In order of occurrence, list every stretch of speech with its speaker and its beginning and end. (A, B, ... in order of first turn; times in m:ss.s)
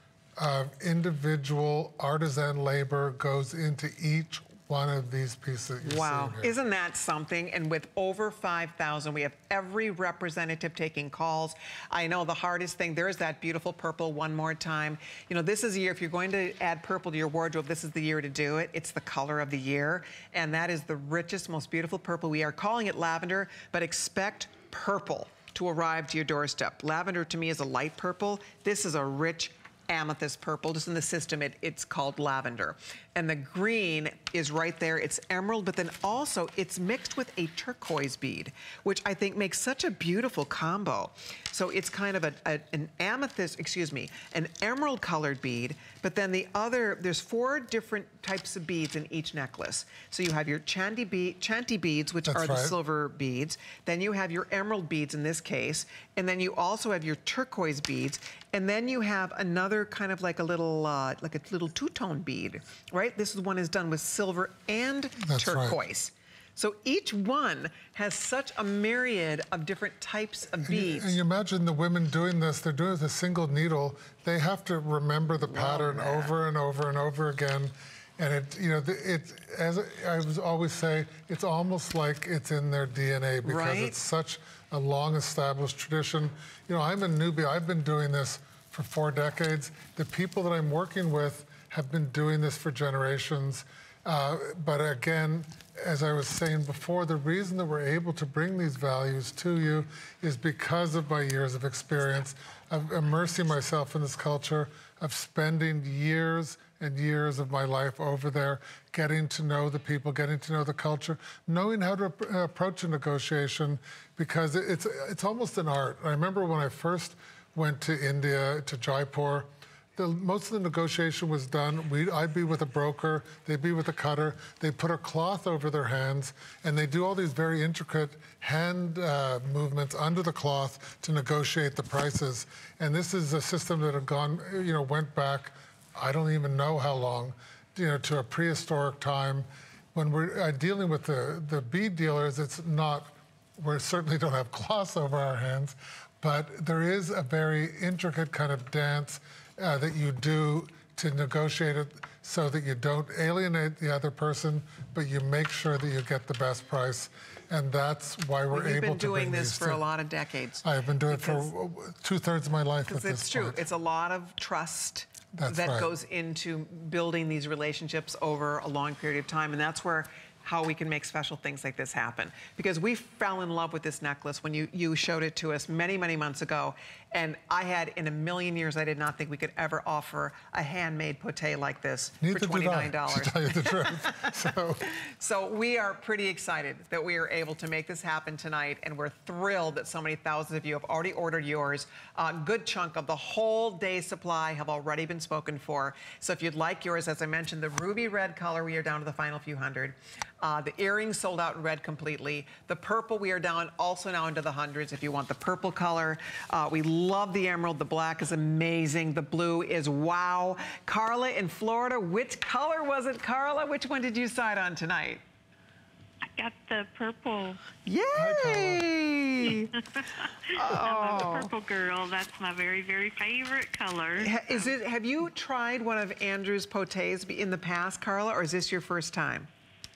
0:00.4-0:06.5 A
0:05.8-1:11.2 B
0:52.3-0:52.8 A
1:05.2-1:05.8 A
1:10.6-2:39.8 A
1:15.4-1:16.3 B
1:23.4-1:24.0 B
2:38.5-2:41.5 B
2:40.6-2:43.6 A
2:42.9-3:04.3 B
2:45.3-2:45.9 A
3:02.2-3:04.8 A
3:04.9-3:35.2 B
3:36.2-3:37.6 C
3:37.8-3:39.7 B
3:38.2-3:38.8 A
3:39.5-3:44.7 C
3:40.5-3:41.5 B
3:44.2-3:49.5 B